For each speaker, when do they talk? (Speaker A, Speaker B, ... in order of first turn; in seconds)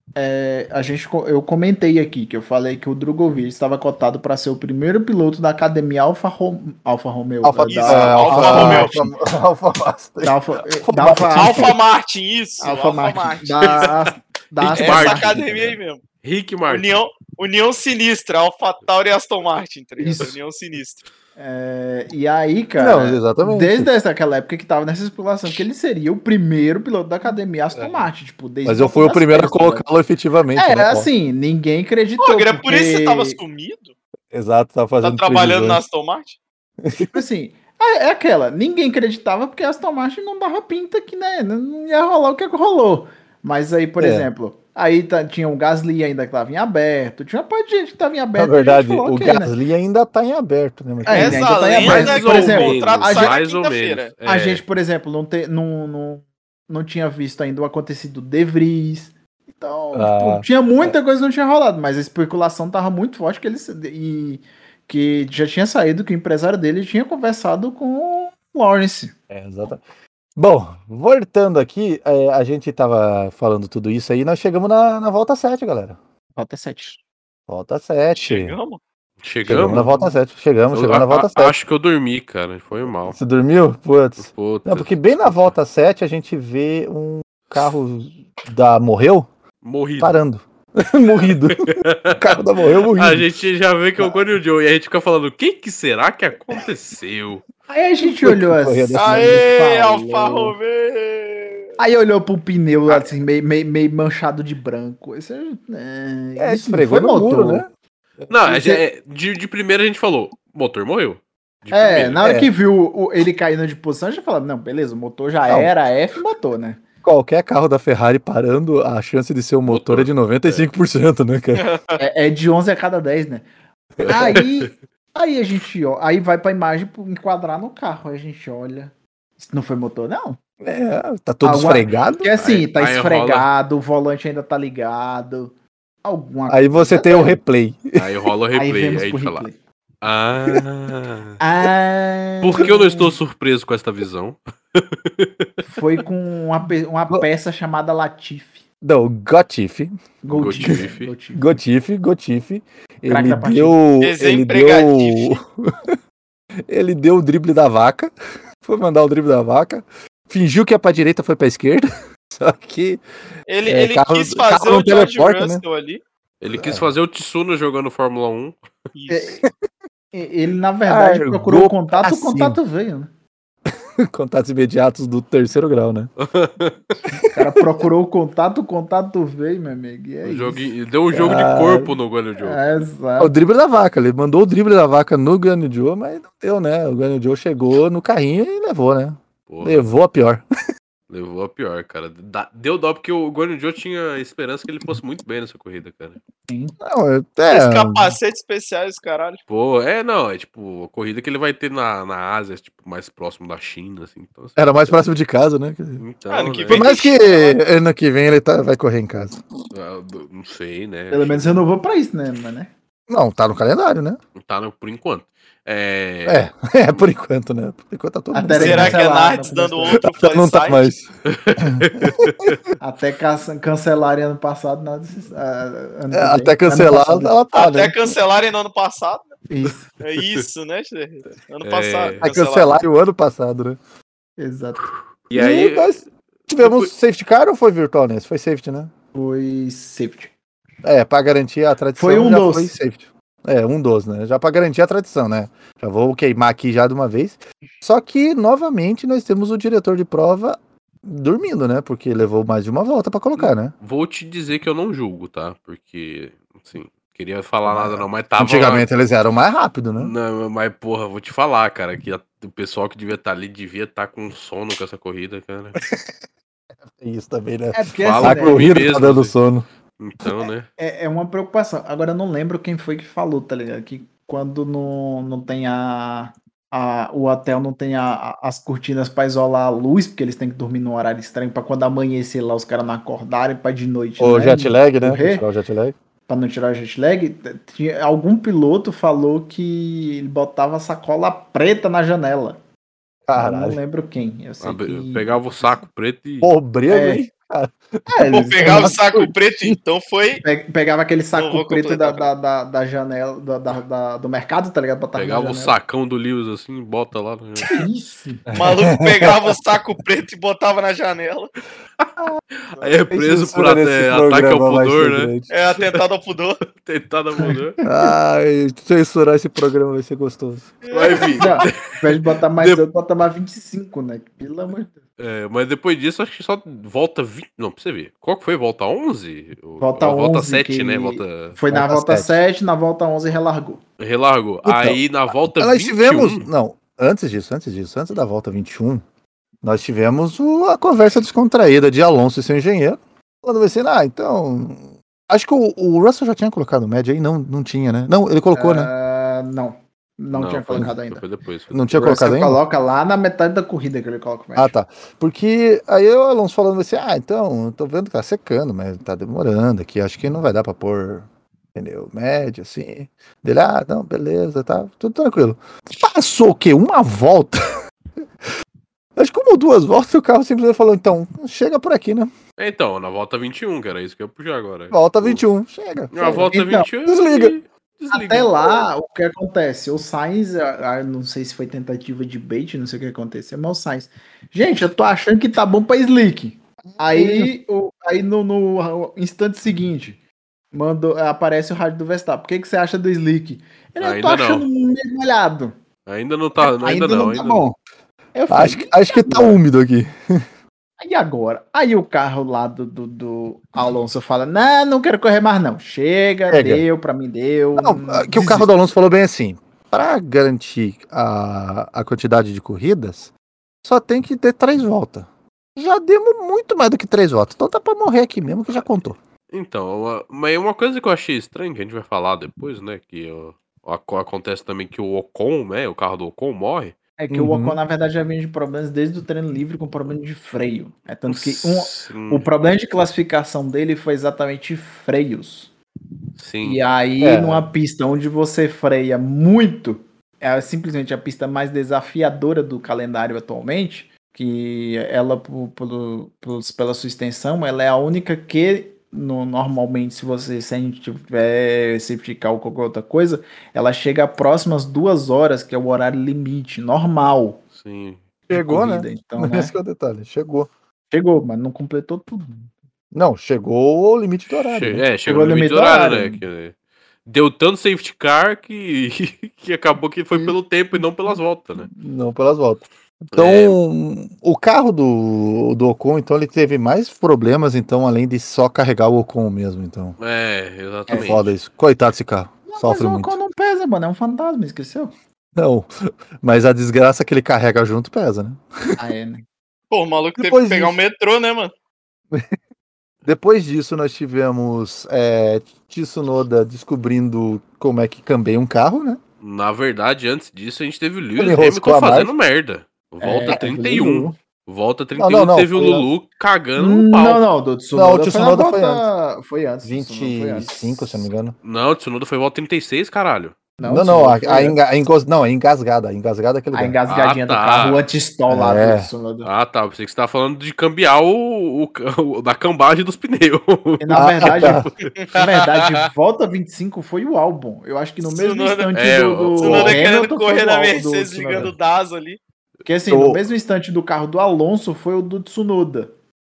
Speaker A: 0.1-9.1, 10.2-11.8, 12.6-15.3, 20.0-20.4, 21.4-29.8, 30.6-33.4, 37.1-49.5, 51.0-53.4, 54.2-69.1, 76.3-77.0, 79.6-80.2, 97.7-100.5, 101.8-107.6, 108.5-108.8, 111.7-116.8, 122.0-123.5, 124.0-130.4, 131.4-135.5, 136.0-137.4, 138.5-139.6, 141.4-143.2, 145.6-148.6, 150.2-151.6, 153.1-153.8, 169.1-169.4, 170.1-173.1, 177.3-180.7, 182.4-183.3, 196.5-196.8, 211.1-212.7, 218.3-220.0, 222.8-227.3, 229.5-229.8, 234.4-234.9, 239.1-240.3, 242.0-242.7, 267.7-268.7, 270.8-285.4, 286.3-292.6, 293.4-295.8, 296.9-297.2, 298.1-298.9, 300.4-305.7, 307.7-308.5, 317.4-318.0, 321.4-325.0, 329.8-333.8, 348.5-351.2, 351.9-354.8, 376.2-376.9, 378.1-390.2, 390.7-395.7, 396.6-397.8, 398.3-399.6, 401.0-408.7, 427.2-435.7, 436.6-457.6, 458.5-459.8, 461.1-462.7, 465.2-466.4, 481.1-481.4, 482.7-485.1, 489.0-489.4, 503.2-504.4, 506.8-511.3, 513.8-514.8, 516.7-519.5, 524.0-531.7, 532.8-536.1
Speaker B: 7.4-11.7, 14.7-15.8, 22.8-23.9, 27.8-28.1, 28.6-31.1, 34.3-35.8, 36.8-37.1, 44.0-44.3, 48.4-51.5, 59.9-60.9, 69.3-69.8, 70.3-76.0, 77.5-78.6, 79.5-81.5, 83.0-89.3, 90.0-93.3, 94.0-94.3, 98.0-99.4, 106.4-107.7, 112.2-112.5, 117.0-121.7, 124.0-124.2, 130.6-132.3, 136.5-138.2, 148.8-155.9, 156.7-163.0, 163.7-165.6, 166.5-166.9, 170.9-172.6, 173.7-176.1, 177.1-177.4, 181.1-181.9, 183.2-190.4, 196.8-198.2, 204.6-206.0, 206.7-209.4, 213.1-214.2, 216.2-219.0, 220.1-221.1, 221.6-222.5, 226.1-228.1, 232.2-233.8, 235.3-238.9, 240.8-253.7, 257.6-260.1, 265.8-266.1, 266.9-269.6, 284.2-285.9, 293.3-293.8, 296.4-299.8, 308.5-309.5, 313.1-315.5, 317.8-320.8, 331.7-332.4, 334.6-335.0, 335.6-339.0, 339.6-348.9, 351.7-352.6, 354.6-367.6, 369.2-372.3, 374.9-376.4, 377.1-377.5, 386.9-387.5, 398.5-400.4, 406.5-406.8, 407.8-413.3, 413.8-419.2, 427.3-427.8, 437.2-437.7, 458.5-460.7, 463.1-465.0, 471.9-480.1, 481.1-483.4, 485.5-488.6, 490.4-491.0, 493.2-499.2, 501.4-502.3, 505.1-506.1, 507.9-509.1, 509.8-511.6, 513.8-517.0, 518.5-519.1, 524.1-524.9, 533.1-533.4
Speaker C: 7.7-9.0, 11.3-13.9, 14.7-16.0, 16.7-21.0, 32.2-33.9, 35.0-36.4, 51.1-54.1, 78.1-78.8, 98.9-101.7, 121.6-122.0, 154.0-155.4, 163.5-166.0, 168.9-169.4, 197.5-199.4, 206.3-207.6, 218.5-220.9, 227.5-229.3, 230.0-232.8, 298.3-300.4, 301.3-302.3, 308.6-311.5, 315.5-316.6, 320.9-321.4, 489.9-491.7, 525.0-525.4, 528.2-528.9, 529.6-532.4
Speaker D: 14.8-15.4, 16.2-16.9, 51.8-54.6, 79.2-79.9, 80.7-83.2, 84.2-85.5, 89.6-90.2, 91.5-92.4, 92.9-97.4, 108.3-112.2, 119.7-120.7, 124.0-124.6, 132.3-133.5, 137.9-139.4, 140.0-141.3, 142.4-145.6, 150.3-151.1, 166.4-168.6, 176.2-177.0, 180.2-182.8, 189.5-189.8, 191.1-196.2, 199.5-205.0, 206.0-207.1, 209.7-211.6, 214.4-216.5, 221.2-222.6, 230.2-230.4, 231.6-232.3, 235.3-236.9, 253.4-258.9, 260.0-265.8, 268.0-269.3, 270.0-270.7, 294.6-296.5, 305.1-307.7, 312.7-316.0, 316.7-317.8, 320.9-322.0, 322.6-322.8, 325.2-331.6, 334.0-336.5, 350.3-351.9, 372.6-375.4, 376.1-378.8, 394.0-394.7, 396.1-397.6, 419.5-426.9, 431.3-432.5, 436.4-436.8, 457.7-458.2, 464.7-466.7, 467.2-471.9, 473.3-473.8, 480.2-481.5, 499.4-507.4, 511.6-513.6, 517.1-518.0, 519.4-525.9, 528.9-530.0